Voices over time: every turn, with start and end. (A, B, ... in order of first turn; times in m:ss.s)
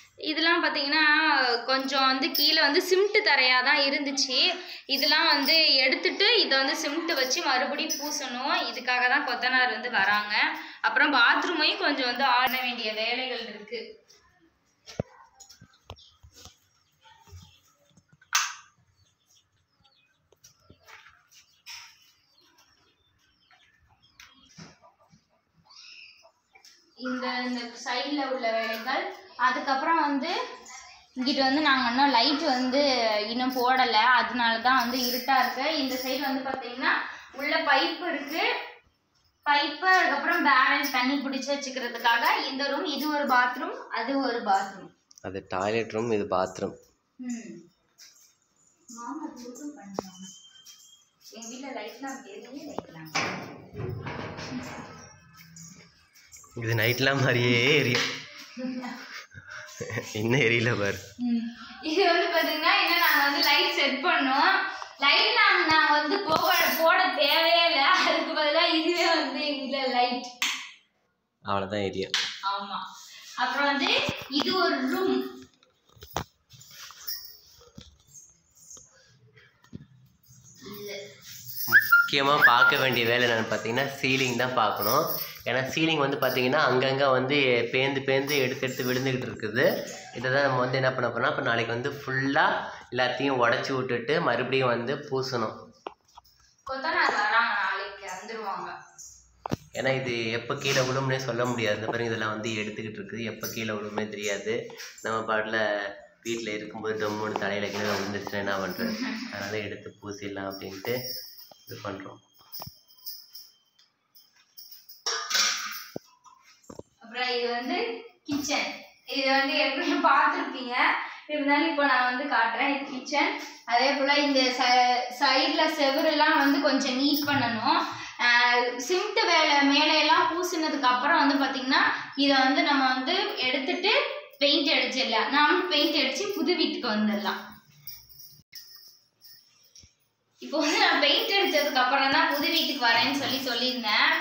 0:00.3-0:13.8 A
0:27.0-0:30.3 A
0:31.2-0:38.4 A
0:39.4-0:44.9 A
0:45.2-0:46.8 B
0:47.2-0:47.6 A
0:48.9-0:50.3 A
0:51.3-0:53.7 A
0:56.6-0:58.1 B
0:58.5-0:59.0 A
0:59.8-1:01.0 B
1:01.2-1:10.3 A
1:11.5-1:12.1 B
1:12.5-1:12.8 A
1:13.4-1:15.2 A
1:20.6-1:21.0 A
1:21.7-1:35.5 B
1:36.7-1:38.7 A
1:39.8-1:45.6 B
1:46.2-1:51.0 B
1:51.7-1:52.2 B
1:57.0-2:17.4 A
2:20.4-2:24.0 A